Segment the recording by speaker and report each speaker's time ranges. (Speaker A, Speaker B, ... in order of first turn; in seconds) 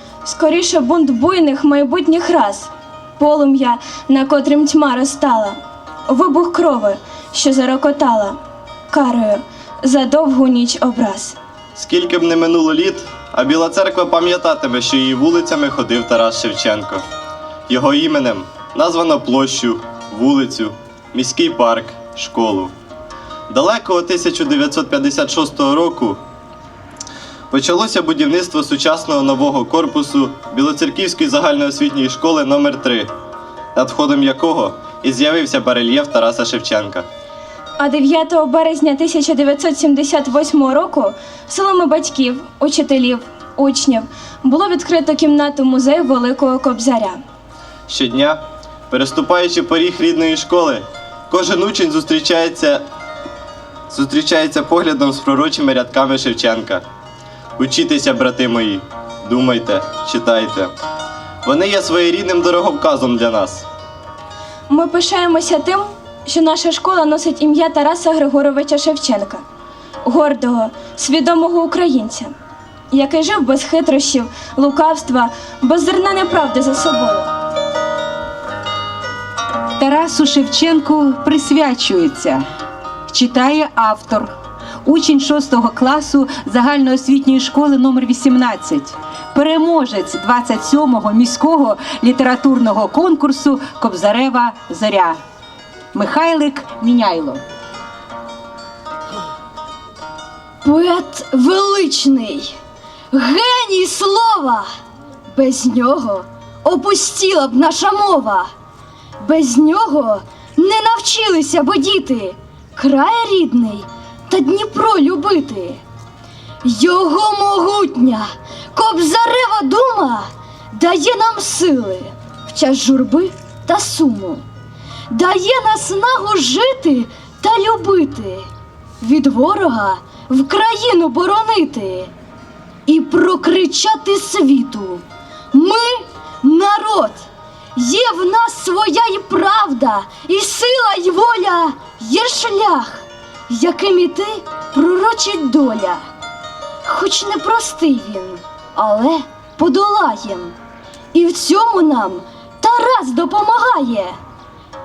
Speaker A: 0.2-8.4, 8.9-11.4, 37.8-47.2, 64.7-69.4, 70.0-72.3, 72.9-77.3
Speaker B: 11.8-17.1, 17.7-22.7, 23.5-26.2, 27.5-33.1, 33.8-37.1, 47.9-52.9, 53.9-56.9, 57.6-60.7, 61.4-63.7
Speaker C: 79.8-82.4, 83.1-84.3, 84.8-95.2, 95.9-97.4
Speaker D: 100.6-102.5, 103.1-104.7, 105.3-108.5, 109.2-115.8, 116.6-124.4, 125.1-128.5, 129.0-132.1, 132.9-146.0, 146.8-150.6, 151.1-154.2